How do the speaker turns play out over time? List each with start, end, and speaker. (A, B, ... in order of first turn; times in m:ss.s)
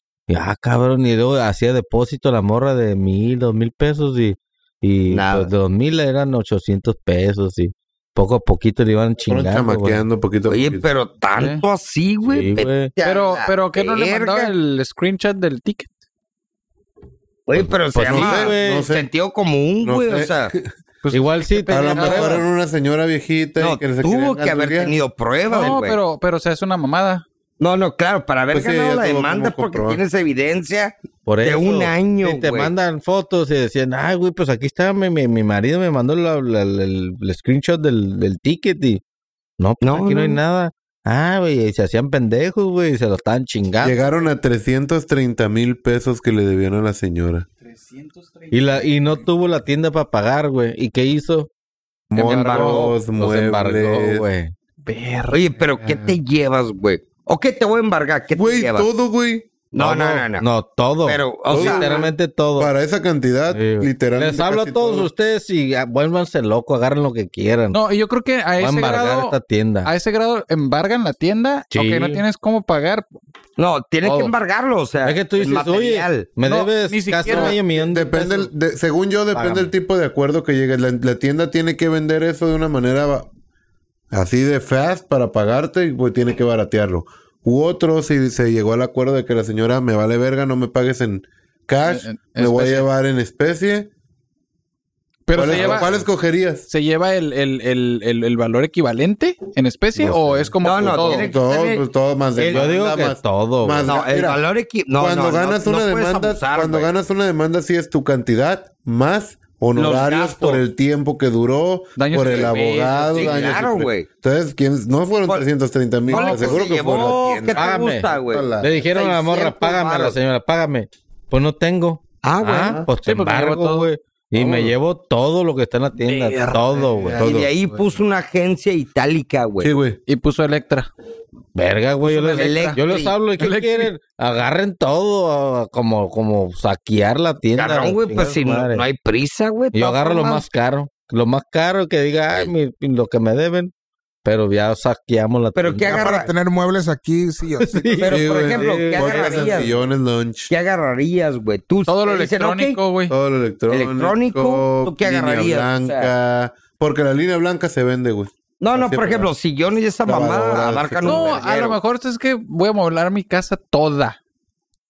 0:00.3-0:10.0 A
0:05.1-0:05.5 B
0:09.3-0:10.8 C
0:10.5-0:14.5 B
0:11.4-0:11.6 D
0:12.2-0:12.9 A
0:13.0-0:15.9 D
0:17.5-0:20.5 B
0:17.9-0:18.9 A
0:17.9-0:19.1 C
0:19.8-0:20.7 C
0:21.0-0:22.4 D
0:21.1-0:22.4 A
0:21.7-0:25.0 C
0:23.6-0:26.0 B
0:25.5-0:27.2 D
0:27.6-0:32.7 B
0:28.5-0:30.0 C
0:31.3-0:39.0 A
0:39.6-0:44.0 A
0:39.8-0:40.4 B
0:43.8-0:47.5 C
0:47.7-0:49.2 D
0:48.5-0:51.5 A
0:52.1-0:54.3 C
0:52.2-0:52.8 D
0:52.2-0:52.9 B
0:52.5-0:54.5 A
0:54.8-0:56.2 D
0:55.3-0:58.9 B
0:58.3-0:59.5 C
0:59.7-1:00.4 B
0:59.8-1:02.7 A
1:01.0-1:02.1 B
1:01.5-1:05.1 C
1:03.5-1:07.8 A
1:07.7-1:13.1 D
1:08.6-1:09.9 A
1:11.7-1:12.2 A
1:13.6-1:16.3 B
1:14.0-1:14.3 D
1:15.0-1:18.5 A
1:16.5-1:17.6 D
1:17.3-1:23.3 C
1:19.3-1:19.7 A
1:24.1-1:33.9 C
1:31.9-1:32.9 D
1:35.3-1:35.9 D
1:35.4-1:36.7 C
1:35.4-1:36.0 A
1:36.7-1:41.3 D
1:40.0-1:40.9 A
1:40.6-1:41.8 B
1:41.0-1:44.4 C
1:42.4-1:43.9 A
1:42.4-1:42.7 B
1:43.8-1:46.9 B
1:45.0-1:58.7 C
1:49.8-1:50.6 B
1:52.0-1:53.5 D
1:52.2-1:52.5 B
1:53.1-1:54.1 B
1:56.1-1:56.6 D
1:56.1-2:00.2 B
1:57.5-2:07.2 A
2:02.2-2:02.9 B
2:03.0-2:03.9 D
2:04.4-2:04.7 C
2:06.0-2:07.8 D
2:07.2-2:07.5 C
2:07.2-2:09.7 B
2:09.6-2:10.0 C
2:10.1-2:10.9 D
2:11.6-2:18.8 A
2:12.0-2:12.8 D
2:12.3-2:13.1 B
2:13.4-2:13.9 D
2:17.6-2:20.4 B
2:19.7-2:23.7 A
2:24.2-2:26.2 A
2:25.6-2:26.3 B
2:25.9-2:28.1 E
2:27.6-2:29.7 A
2:28.0-2:29.8 B
2:28.1-2:30.5 C
2:30.5-2:32.8 B
2:31.9-2:33.1 D
2:33.1-2:39.3 C
2:33.7-2:36.1 B
2:38.6-2:41.8 B
2:40.0-2:41.4 C
2:41.0-2:44.2 D